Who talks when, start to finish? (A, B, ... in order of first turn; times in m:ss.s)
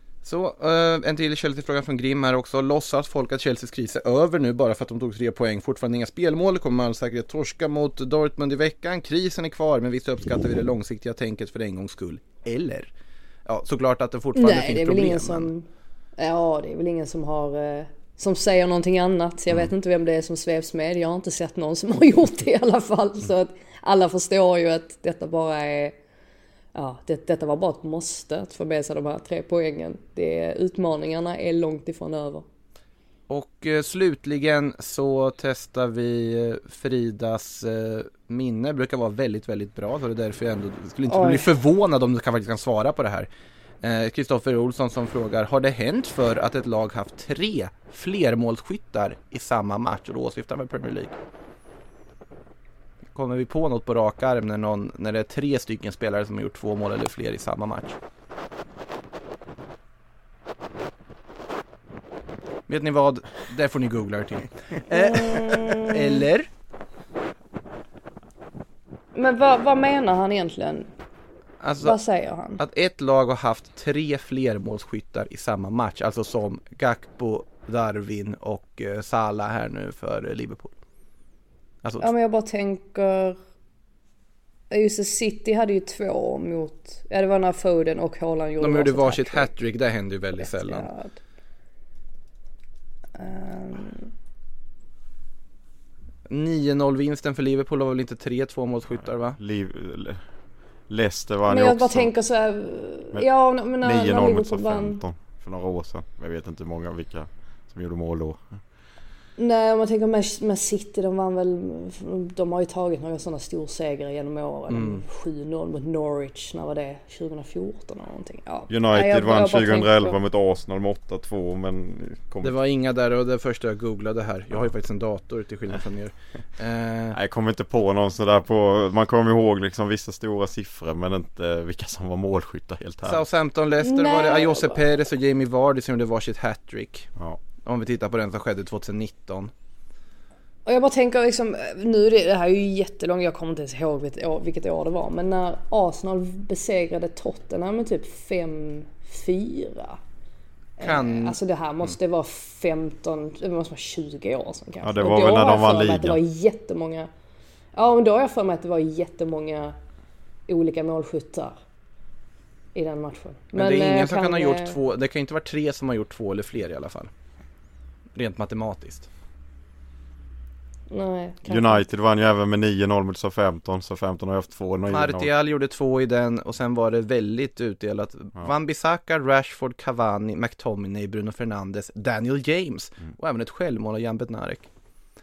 0:00.2-0:12.9 A
0:13.5-0:15.5 A
0:14.4-0:15.7 B
0:16.2-0:26.0 B
0:26.8-0:32.4 B
0:33.3-0:43.3 A
0:41.1-0:41.5 B
0:43.8-0:51.2 A
0:53.1-0:58.0 A
1:02.7-1:06.5 A
1:04.9-1:06.2 B
1:09.1-1:10.9 B
1:11.6-1:12.0 A
1:11.8-1:12.6 B
1:12.6-1:20.8 A
1:21.8-1:22.1 A
1:22.0-1:23.4 B
1:24.7-1:29.5 B
1:28.6-1:30.9 A
1:30.4-1:31.2 B
1:33.2-1:34.1 B
1:36.3-1:39.4 A
1:39.4-1:40.2 C
1:40.9-1:42.1 C
1:41.5-1:45.0 B
1:43.8-1:48.6 C
1:49.4-2:00.2 B
1:54.7-1:55.0 A
1:58.7-2:02.6 C
2:02.4-2:07.2 A
2:07.1-2:13.2 C
2:13.0-2:17.1 A
2:13.8-2:14.8 B
2:17.6-2:19.5 A
2:20.7-2:30.0 B
2:30.8-2:37.1 B
2:30.8-2:31.4 A
2:34.8-2:36.2 C
2:37.8-2:39.8 B
2:40.5-2:41.6 B
2:42.8-2:44.8 B
2:43.5-2:47.1 A
2:48.2-2:49.1 A
2:50.9-2:51.8 B
2:51.5-2:55.3 C
2:54.9-3:04.7 A